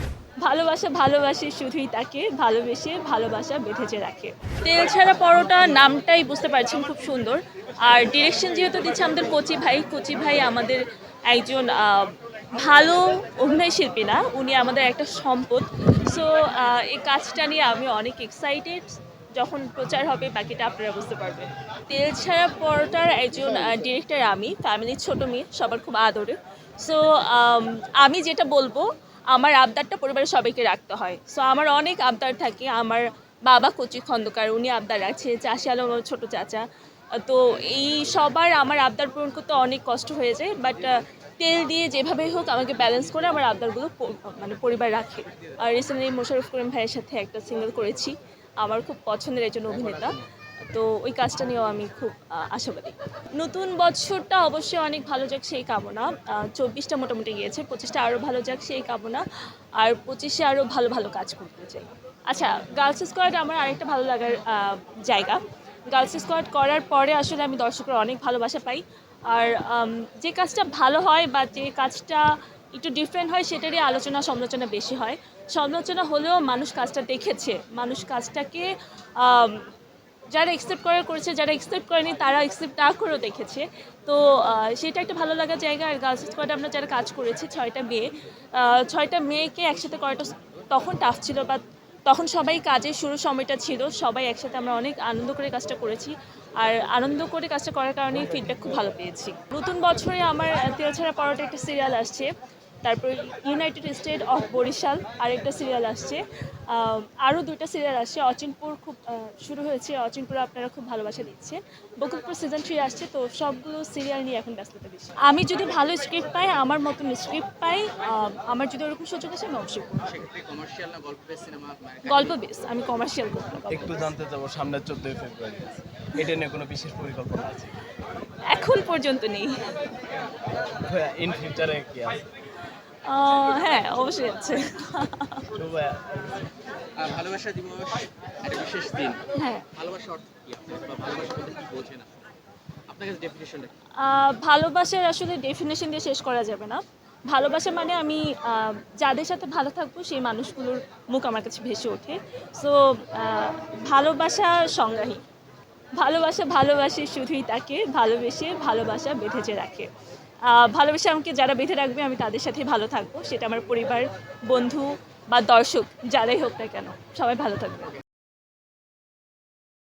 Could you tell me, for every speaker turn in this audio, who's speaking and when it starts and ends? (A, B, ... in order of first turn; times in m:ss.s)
0:00.4-0:50.2 A
0:50.7-0:59.2 A
0:59.8-1:19.6 A
1:20.3-1:42.3 A
1:42.8-2:00.1 A
2:00.0-2:02.4 B
2:02.0-2:04.1 A
2:03.7-2:07.7 C
2:08.4-2:09.6 A
2:10.8-2:12.2 C
2:13.0-2:15.5 A
2:15.5-2:16.3 C
2:17.0-2:19.2 B
2:19.3-2:19.7 A
2:19.7-2:22.2 B
2:22.9-2:23.7 B
2:24.0-2:35.2 A
2:36.0-2:39.9 A
2:40.5-2:47.9 A